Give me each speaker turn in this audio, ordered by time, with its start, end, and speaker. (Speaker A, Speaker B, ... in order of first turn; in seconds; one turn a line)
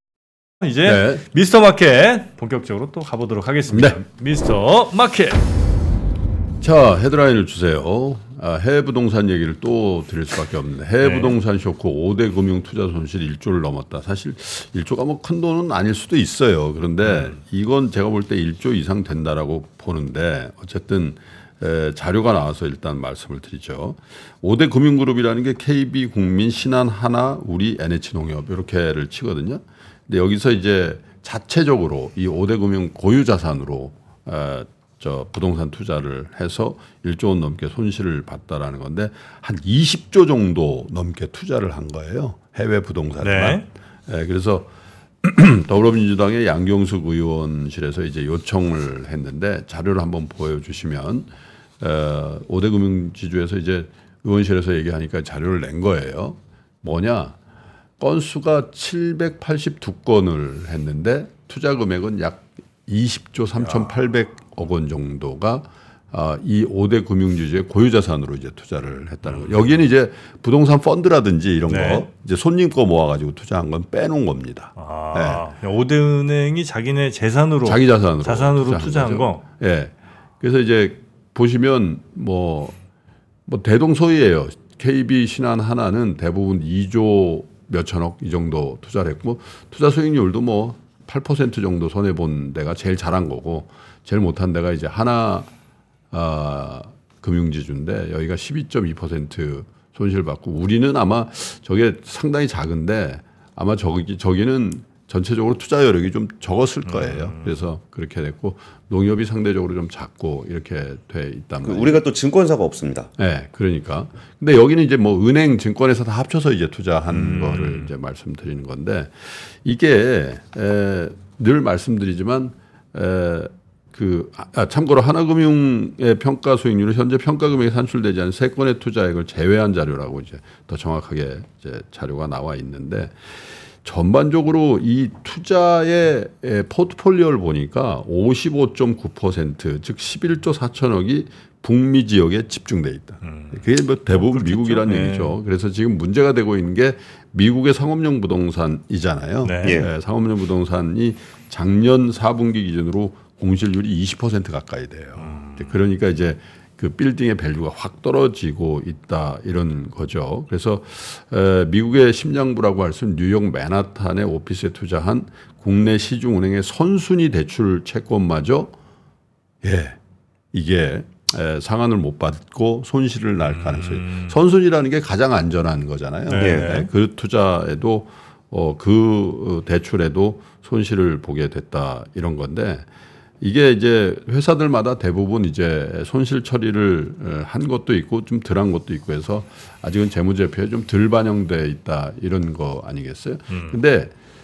Speaker A: 0.6-5.4
Speaker B: 0.8-1.2
Speaker B: 3.7-4.0
Speaker B: 6.6-44.7
Speaker A: 11.0-11.3
Speaker A: 17.0-17.3
Speaker A: 43.2-43.6
Speaker B: 45.2-51.3
Speaker B: 51.8-57.4
Speaker B: 58.0-75.5
Speaker A: 69.3-69.5
Speaker A: 71.7-72.1
Speaker A: 74.8-79.4
Speaker B: 77.6-82.8
Speaker B: 83.5-95.5
Speaker B: 96.1-112.0
Speaker A: 106.8-107.6
Speaker C: 111.6-113.1
Speaker B: 113.2-133.2
Speaker A: 117.1-117.9
Speaker B: 133.8-168.7
Speaker A: 143.2-145.4
Speaker A: 149.4-149.8
Speaker C: 149.6-149.9
Speaker A: 155.2-155.7
Speaker B: 169.6-170.0
Speaker B: 170.5-182.9
Speaker A: 173.6-174.3
Speaker A: 176.3-176.9
Speaker C: 176.4-176.8
Speaker B: 183.4-194.1
Speaker A: 193.5-193.8